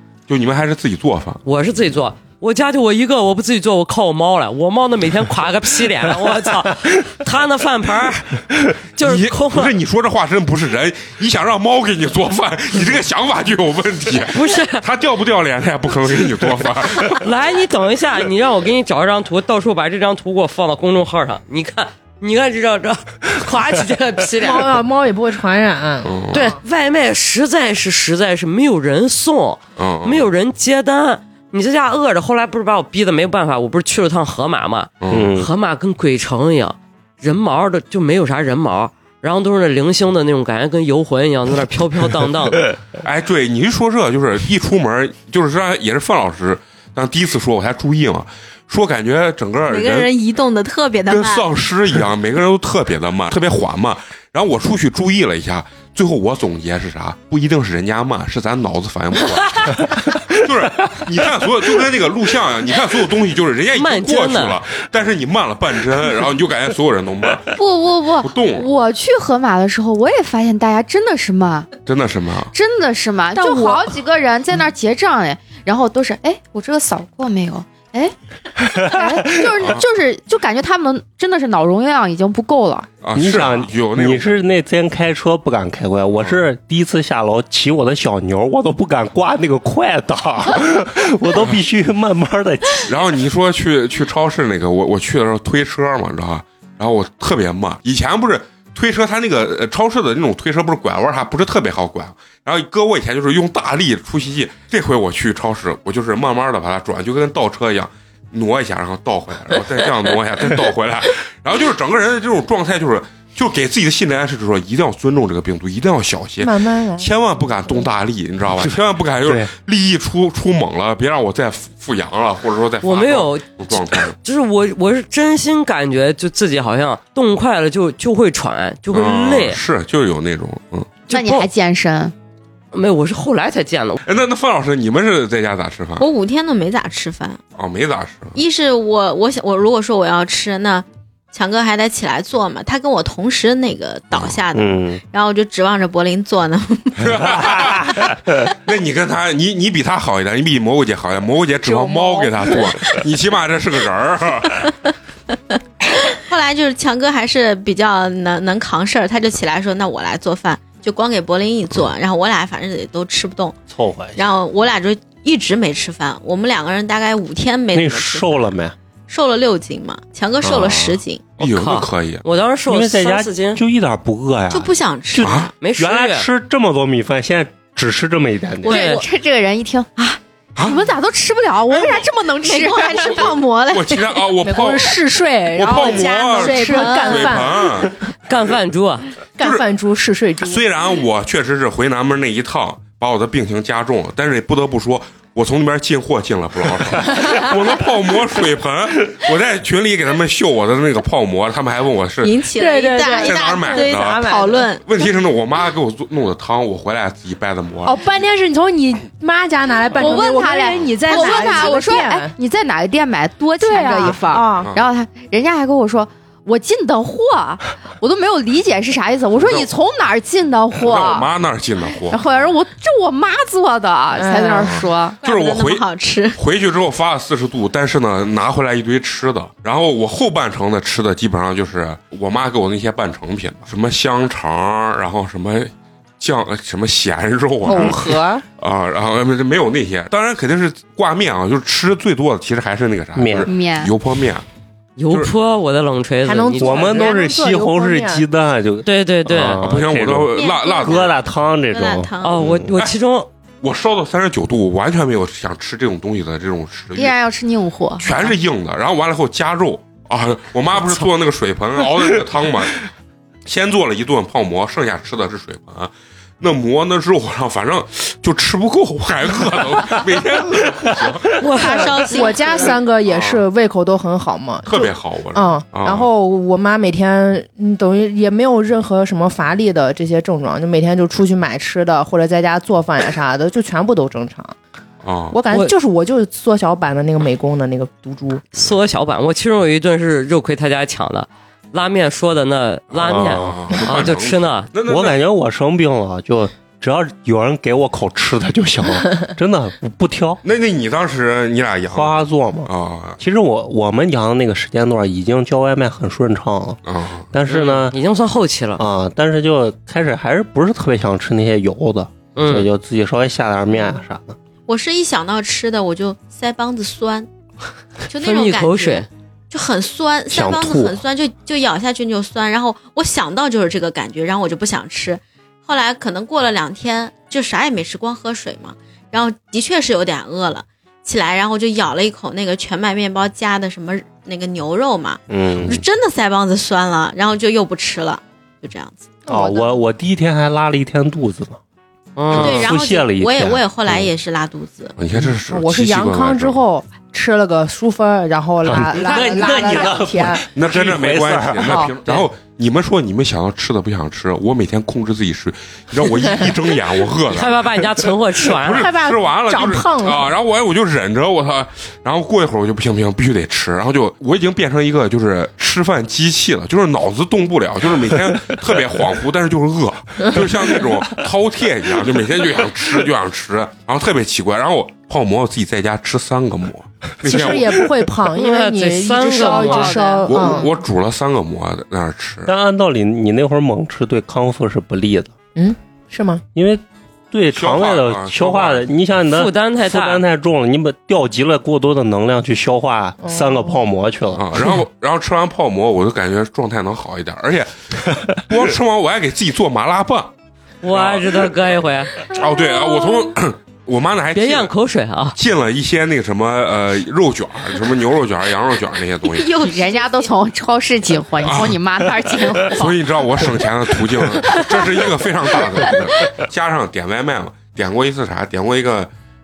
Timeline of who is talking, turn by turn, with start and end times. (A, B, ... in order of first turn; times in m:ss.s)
0:00.3-0:01.4 A
0:01.4-0:09.8 B
0:09.0-0:17.2 A
0:14.3-0:14.8 B
0:17.2-0:24.8 B
0:24.4-0:26.6 C
0:26.0-0:26.5 A
0:26.3-0:42.7 B
0:29.8-0:30.3 A
0:35.0-0:35.3 A
0:35.1-0:35.5 D
0:43.0-0:50.1 A
0:49.7-0:51.5 E
0:51.1-1:07.6 A
1:03.7-1:04.6 B
1:07.5-1:11.7 F
1:08.2-1:08.7 A
1:11.9-1:12.5 A
1:12.5-1:18.1 F
1:13.4-1:13.9 C
1:18.8-1:22.9 F
1:23.0-1:24.4 A
1:23.1-1:32.9 D
1:26.2-1:26.4 A
1:32.8-2:04.2 A
1:56.4-1:57.1 C
2:02.8-2:03.5 B
2:04.2-2:09.6 B
2:08.9-2:11.1 A
2:11.1-2:11.5 B
2:11.1-2:12.1 F
2:12.7-2:14.0 B
2:14.0-2:16.1 A
2:16.0-2:17.4 E
2:17.6-2:18.4 A
2:18.4-2:27.6 E
2:24.1-2:24.4 A
2:24.6-2:25.0 D
2:27.0-2:34.7 A
2:27.2-2:28.1 D
2:31.7-2:32.3 C
2:36.0-2:43.6 E
2:43.7-2:44.2 D
2:44.2-2:48.5 E
2:47.7-2:48.8 D
2:49.1-2:51.2 E
2:50.4-2:51.0 D
2:51.4-2:52.2 A
2:51.4-2:53.6 B
2:52.7-2:58.8 D
2:54.5-2:55.5 E
2:55.2-2:55.5 A
2:55.6-2:56.3 B
2:58.6-2:59.1 E
2:58.7-2:59.0 B
2:58.7-3:03.4 F
3:00.6-3:00.9 A
3:01.7-3:04.2 E
3:03.1-3:05.0 A
3:04.4-3:07.9 C
3:05.5-3:07.9 A
3:05.7-3:07.5 E
3:08.3-3:09.1 B
3:09.4-3:10.6 C
3:09.4-3:09.7 A
3:10.4-3:22.4 A
3:22.2-3:24.8 E
3:22.6-3:24.7 C
3:23.2-3:24.3 A
3:24.9-3:28.0 A
3:27.8-3:32.4 C
3:29.9-3:41.3 F
3:30.0-3:30.3 E
3:31.1-3:32.0 E
3:33.6-3:34.7 C
3:34.6-3:34.9 A
3:39.4-3:39.7 A
3:40.8-3:42.5 A
3:42.1-3:45.2 F
3:44.2-3:44.8 C
3:44.6-4:04.4 A
3:45.2-3:46.4 E
3:57.6-3:58.4 C
4:03.2-4:03.5 D
4:03.4-4:03.9 F
4:05.0-4:07.1 B
4:06.2-4:08.3 C
4:06.6-4:12.6 D
4:08.8-4:09.6 B
4:09.6-4:11.1 A
4:10.3-4:12.4 E
4:12.2-4:13.3 B
4:12.4-4:12.9 A
4:13.6-4:17.2 A
4:17.0-4:18.2 F
4:18.0-4:22.8 A
4:23.4-4:31.3 A
4:31.4-4:32.0 B
4:31.4-4:32.8 E
4:32.0-4:44.6 C
4:33.1-4:33.4 A
4:34.7-4:36.1 A
4:45.0-4:45.4 A
4:45.3-4:48.4 C
4:48.5-4:54.7 B
4:52.9-4:55.2 A
4:53.0-4:53.6 D
4:54.9-5:00.4 D
5:00.4-5:03.2 A
5:01.9-5:06.8 D
5:06.8-5:07.3 A
5:07.3-5:08.0 D
5:07.5-5:08.8 B
5:08.8-5:14.4 D
5:12.4-5:12.7 B
5:14.7-5:17.3 E
5:18.1-5:39.1 E
5:18.2-5:19.1 B
5:20.3-5:21.0 D
5:35.3-5:35.8 D
5:39.3-5:39.8 C
5:39.3-5:41.6 D
5:42.2-5:42.7 B
5:42.3-5:43.6 D
5:42.4-5:45.0 E
5:45.0-5:46.6 A
5:45.4-5:50.4 C
5:48.6-5:52.2 D
5:49.2-5:49.8 F
5:50.5-5:57.5 A
5:51.6-5:51.9 C
5:57.3-5:58.9 B
5:58.6-6:17.8 A
5:58.7-6:00.3 C
6:17.2-6:20.7 C
6:18.3-6:20.1 B
6:19.2-6:20.6 F
6:20.3-6:22.5 A
6:22.5-6:25.4 D
6:25.6-6:26.4 C
6:26.5-6:34.7 D
6:27.5-6:28.9 A
6:29.3-6:30.2 B
6:33.2-6:33.8 C
6:34.3-6:40.3 A
6:40.8-6:42.1 B
6:40.9-6:41.5 A
6:42.3-6:44.7 A
6:44.3-6:45.4 B
6:45.4-6:49.5 A
6:49.2-6:50.3 E
6:49.6-6:53.0 F
6:51.4-6:51.8 A
6:52.7-6:59.1 A